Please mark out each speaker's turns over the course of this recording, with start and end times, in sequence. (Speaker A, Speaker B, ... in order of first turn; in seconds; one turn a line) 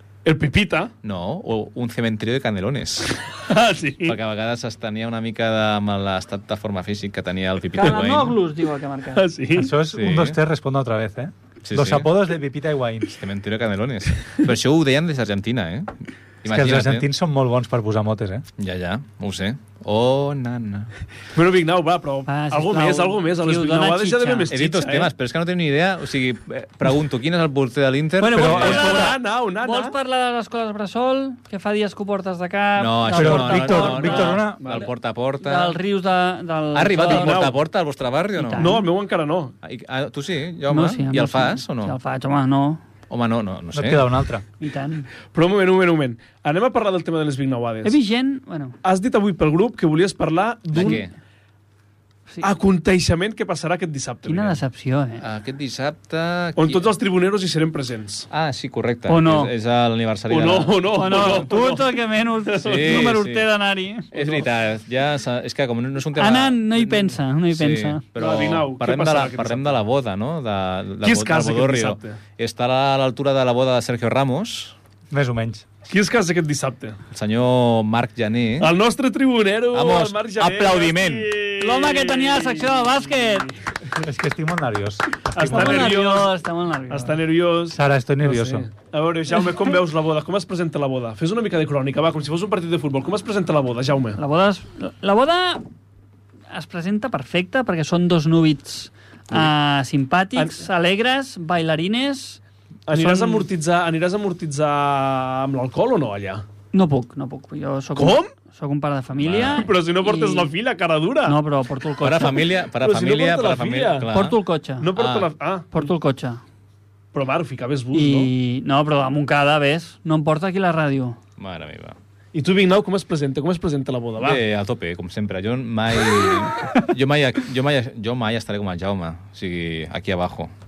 Speaker A: 0.2-0.9
Speaker B: 1.0-3.3
Speaker A: 3.4-4.2
Speaker B: 4.0-8.4
Speaker C: 7.7-9.2
Speaker A: 9.1-9.7
Speaker D: 9.5-13.2
Speaker B: 9.9-10.4
Speaker B: 11.6-12.1
Speaker B: 13.1-17.1
Speaker D: 16.4-18.4
Speaker B: 18.6-20.9
Speaker A: 21.3-25.1
Speaker C: 22.3-24.5
Speaker B: 24.5-29.1
Speaker C: 28.2-34.8
Speaker D: 28.3-29.1
Speaker A: 28.4-29.9
Speaker B: 32.8-35.8
Speaker D: 33.1-34.6
Speaker A: 34.6-34.9
Speaker C: 35.4-37.5
Speaker B: 36.7-38.8
Speaker A: 37.0-37.6
Speaker C: 38.3-38.9
Speaker A: 38.5-39.5
Speaker B: 39.6-42.0
Speaker C: 40.7-42.8
Speaker B: 43.1-44.0
Speaker D: 43.7-44.4
Speaker C: 44.6-45.1
Speaker A: 45.3-48.0
Speaker C: 47.8-48.8
Speaker A: 48.8-51.0
Speaker B: 50.7-51.1
Speaker A: 52.4-54.6
Speaker C: 54.2-55.2
Speaker B: 55.2-56.9
Speaker A: 56.5-58.3
Speaker B: 58.3-61.5
Speaker C: 59.1-59.5
Speaker A: 60.3-61.9
Speaker C: 60.9-64.1
Speaker A: 62.5-63.1
Speaker B: 62.6-63.5
Speaker B: 64.1-74.7
Speaker A: 64.1-64.5
Speaker C: 66.2-68.0
Speaker A: 68.1-69.8
Speaker A: 71.0-72.2
Speaker D: 75.1-75.7
Speaker A: 75.9-77.0
Speaker B: 77.1-78.7
Speaker A: 78.6-83.6
Speaker B: 79.7-81.3
Speaker C: 81.6-83.5
Speaker D: 84.0-85.9
Speaker A: 85.3-86.3
Speaker C: 85.5-87.2
Speaker A: 86.9-94.2
Speaker D: 87.7-88.7
Speaker C: 94.2-95.6
Speaker C: 96.5-102.4
Speaker A: 100.3-100.6
Speaker A: 102.9-106.4
Speaker C: 102.9-103.5
Speaker C: 106.7-110.5
Speaker A: 108.0-108.3
Speaker B: 109.1-109.7
Speaker A: 109.5-111.4
Speaker C: 111.2-112.5
Speaker B: 112.0-114.4
Speaker A: 112.2-114.1
Speaker C: 114.1-114.9
Speaker A: 114.8-115.9
Speaker B: 114.9-115.3
Speaker C: 115.7-116.4
Speaker A: 117.1-118.3
Speaker C: 117.9-121.2
Speaker B: 121.4-122.0
Speaker A: 122.3-124.4
Speaker B: 124.2-130.5